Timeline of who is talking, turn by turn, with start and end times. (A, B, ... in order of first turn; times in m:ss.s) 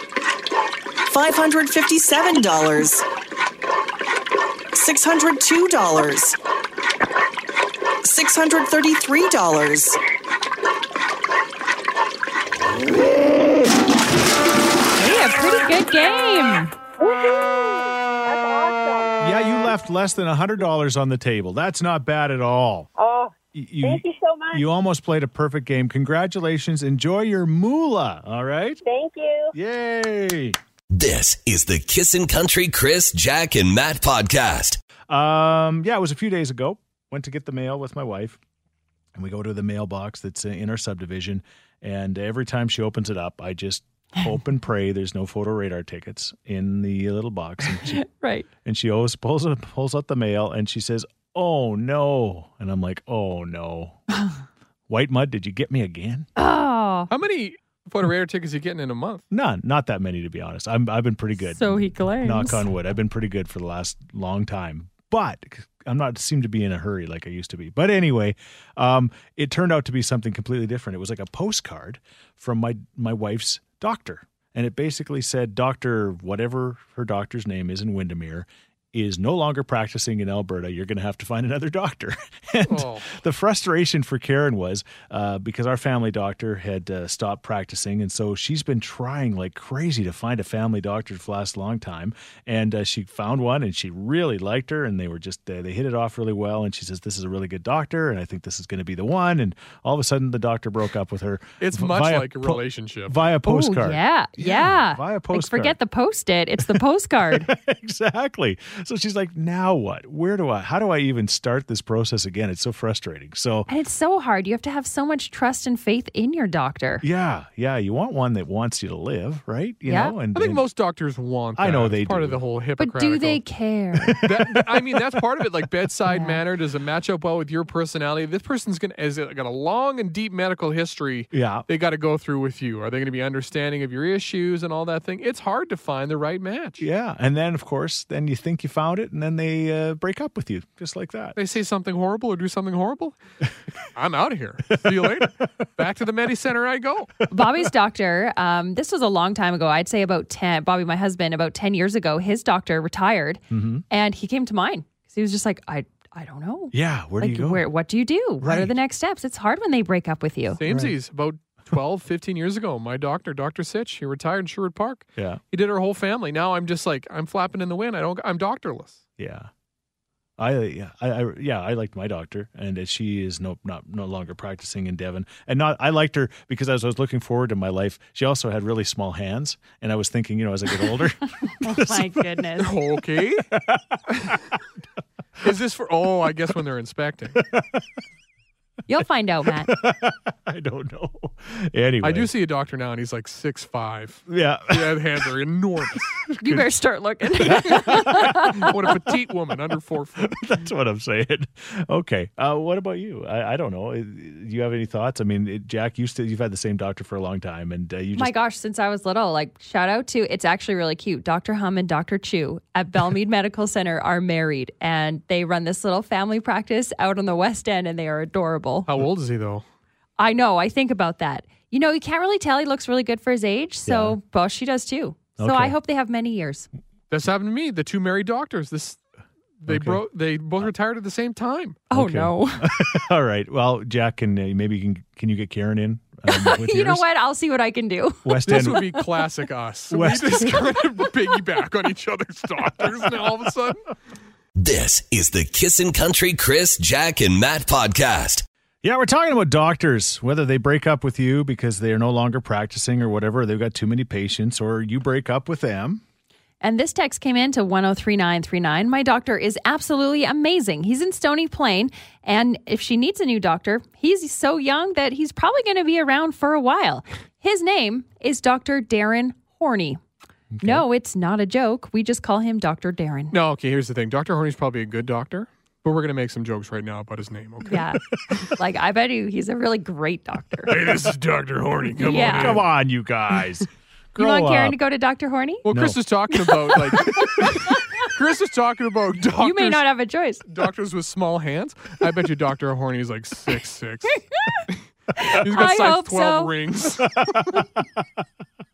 0:01.1-0:03.0 A
0:04.7-0:06.4 A
0:08.0-0:10.0 A
0:15.0-0:16.7 B
0:17.0-0:19.2 C
0:19.2-0:22.9 D
0:23.0-0:24.6 C
0:23.5-0:28.8 D
0:28.8-0:29.5 C
0:29.5-0:30.6 D
0:30.9-0:34.8 E
0:35.1-0:38.4 D
0:39.2-0:48.0 D
0:47.8-0:48.5 B
0:48.6-0:54.0 D
0:54.9-0:56.3 D
0:56.4-0:57.1 B
0:57.1-0:59.2 F
0:59.3-1:45.8 D
1:01.5-1:02.6 B
1:22.7-1:23.2 F
1:41.6-1:43.2 F
1:43.4-1:47.5 B
1:46.6-1:53.7 D
1:53.7-1:57.0 B
1:57.0-2:00.6 D
1:59.9-2:00.2 B
2:00.4-2:03.4 F
2:01.6-2:02.4 D
2:02.8-2:04.2 B
2:04.0-2:05.4 D
2:04.2-2:16.8 F
2:06.1-2:06.4 B
2:11.3-2:11.6 D
2:16.8-2:21.4 D
2:21.4-2:23.2 F
2:23.9-2:27.1 F
2:24.8-2:25.3 D
2:27.3-2:40.6 B
2:27.4-2:27.7 D
2:33.5-2:33.8 D
2:36.7-2:37.6 D
2:38.4-2:38.7 D
2:40.6-2:49.0 F
2:40.6-2:41.0 D
2:49.2-2:49.5 D
2:50.4-3:02.5 D
3:01.5-3:02.8 B
3:02.6-3:03.5 F
3:03.5-3:04.3 D
3:04.1-3:04.4 F
3:05.4-3:07.4 F
3:07.4-3:07.9 D
3:08.9-3:09.7 B
3:09.5-3:12.3 D
3:12.0-3:16.2 F
3:14.3-3:15.2 D
3:16.3-3:16.7 D
3:16.4-3:18.7 B
3:17.4-3:18.7 D
3:17.9-3:20.4 F
3:20.2-3:28.4 D
3:28.2-3:38.9 B
3:38.9-3:39.6 F
3:40.2-3:46.7 B
3:43.9-3:44.2 D
3:45.4-3:45.8 D
3:47.1-3:49.0 F
3:49.6-3:51.8 F
3:49.7-3:50.0 D
3:51.9-3:52.8 B
3:51.9-3:57.0 D
3:56.3-3:58.9 B
3:58.2-3:59.0 D
3:58.5-4:03.9 F
3:59.9-4:00.8 D
4:04.6-4:08.5 E
4:08.8-4:16.0 D
4:16.6-4:30.0 B
4:30.6-4:30.8 D
4:30.6-4:33.4 B
4:33.3-4:37.9 F
4:37.6-4:40.8 B
4:40.7-4:42.7 F
4:42.0-4:42.6 B
4:42.1-4:44.8 D
4:44.2-4:45.6 B
4:45.7-4:49.9 F
4:45.7-4:46.0 D
4:46.4-4:48.0 B
4:49.4-4:50.5 B
4:50.5-4:54.8 F
4:54.3-4:56.5 B
4:55.3-4:57.4 F
4:57.1-4:57.6 D